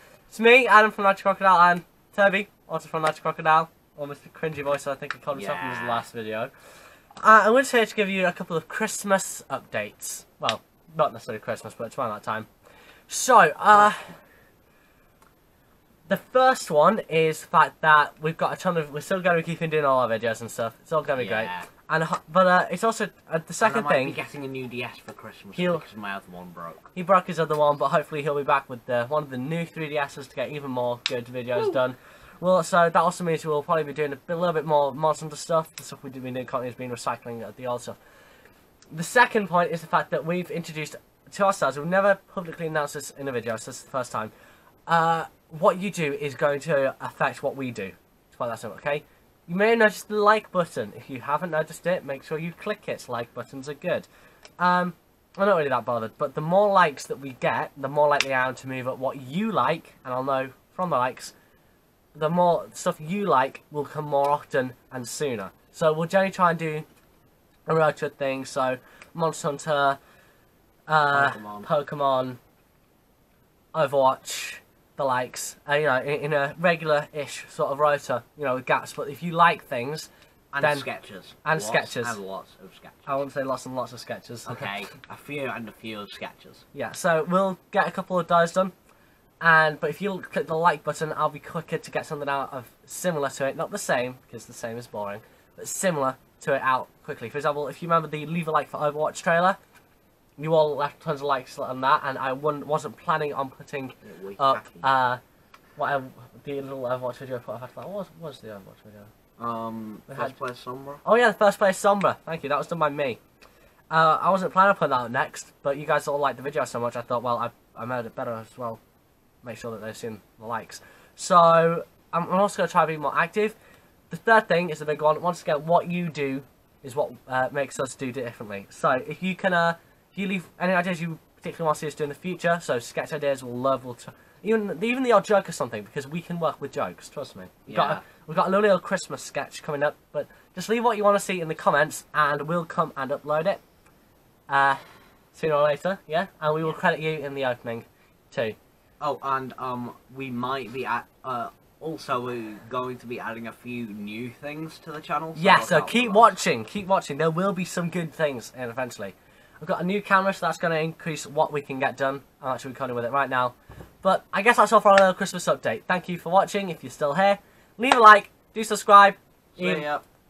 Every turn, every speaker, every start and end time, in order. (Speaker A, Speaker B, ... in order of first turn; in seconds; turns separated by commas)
Speaker A: 0.3-6.5, Speaker B: 5.3-6.0, Speaker A: 7.2-12.5, Speaker A: 13.1-14.1, Speaker A: 16.1-24.2, Speaker B: 21.1-21.7, Speaker B: 23.6-26.9, Speaker A: 25.6-25.8, Speaker A: 26.9-38.0, Speaker A: 38.9-44.3, Speaker A: 44.9-54.1, Speaker A: 54.6-61.3, Speaker A: 62.1-66.8, Speaker A: 67.7-70.0, Speaker A: 70.9-72.4, Speaker B: 71.1-71.7, Speaker A: 73.7-80.1, Speaker B: 80.5-83.1, Speaker A: 80.6-80.9, Speaker A: 81.4-82.2, Speaker A: 83.1-84.7, Speaker B: 84.5-86.6, Speaker A: 86.7-88.7, Speaker A: 89.4-99.6, Speaker A: 100.4-105.2, Speaker B: 104.0-104.9, Speaker A: 105.8-109.1, Speaker B: 109.4-111.0, Speaker A: 110.1-110.3, Speaker A: 111.0-113.2, Speaker A: 113.9-118.8, Speaker A: 119.4-123.5, Speaker A: 124.1-143.6, Speaker B: 137.7-138.0, Speaker A: 144.5-144.8, Speaker A: 145.3-148.6, Speaker B: 149.0-156.3, Speaker A: 155.3-169.9, Speaker B: 169.6-170.0